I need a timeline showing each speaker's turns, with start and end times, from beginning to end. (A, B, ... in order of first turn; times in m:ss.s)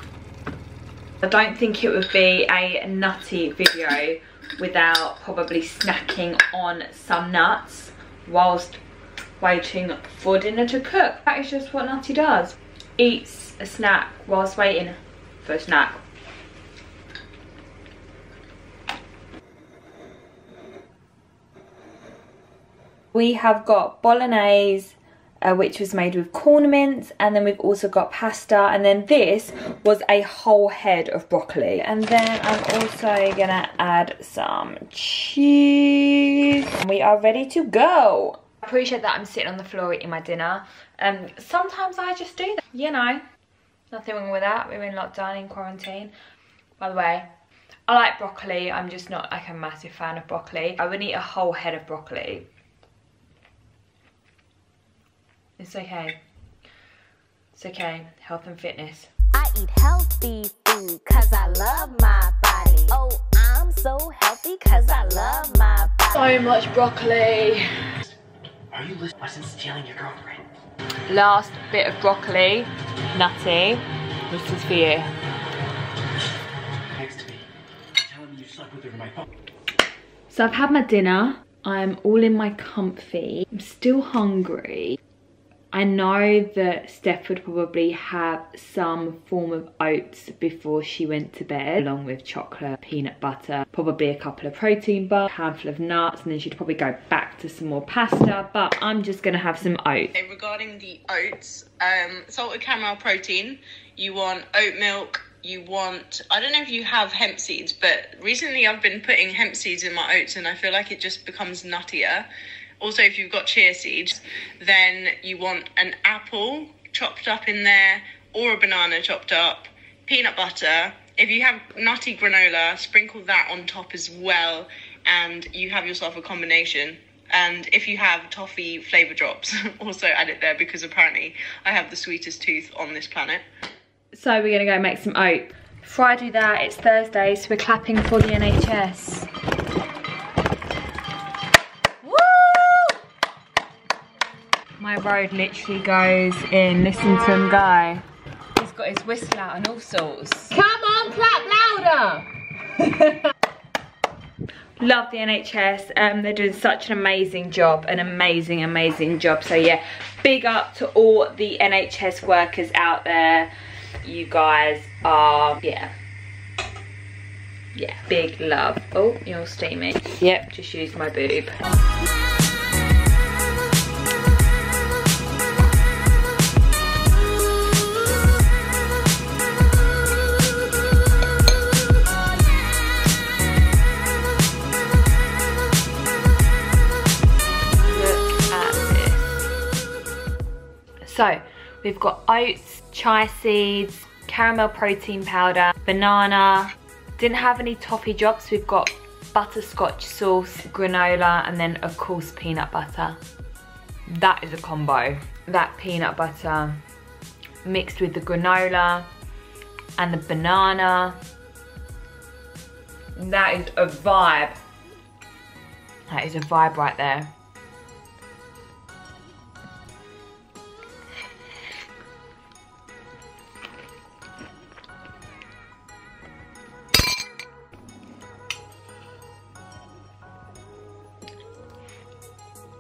0:01.2-0:08.8 A
0:09.4-0:16.0 A
0:23.1-0:43.2 A
0:43.9-0:46.1 A
0:46.8-0:47.3 A
0:47.9-0:52.5 A
0:55.6-0:56.2 A
0:57.5-0:59.1 A
0:59.4-1:06.2 B
1:02.5-1:02.9 A
1:04.8-1:05.1 A
1:06.1-1:07.9 A
1:08.7-1:10.4 C
1:11.1-1:15.1 A
1:17.0-1:17.4 C
1:18.0-1:19.2 C
1:20.3-1:25.0 A
1:25.7-1:40.1 A
1:40.2-1:52.3 D
1:52.8-2:13.4 D
2:14.1-2:19.3 A
2:22.0-2:23.0 A
2:24.8-2:28.0 A
2:28.6-2:32.3 A
2:32.8-2:33.1 A
2:34.8-2:43.5 A
2:44.0-2:45.9 A
2:47.7-2:51.5 A
3:07.9-3:09.4 A
3:11.0-3:23.2 A
3:24.1-3:26.8 A
3:27.6-3:29.1 A
3:30.0-3:31.2 A
3:33.2-3:34.6 A
3:36.1-3:37.3 A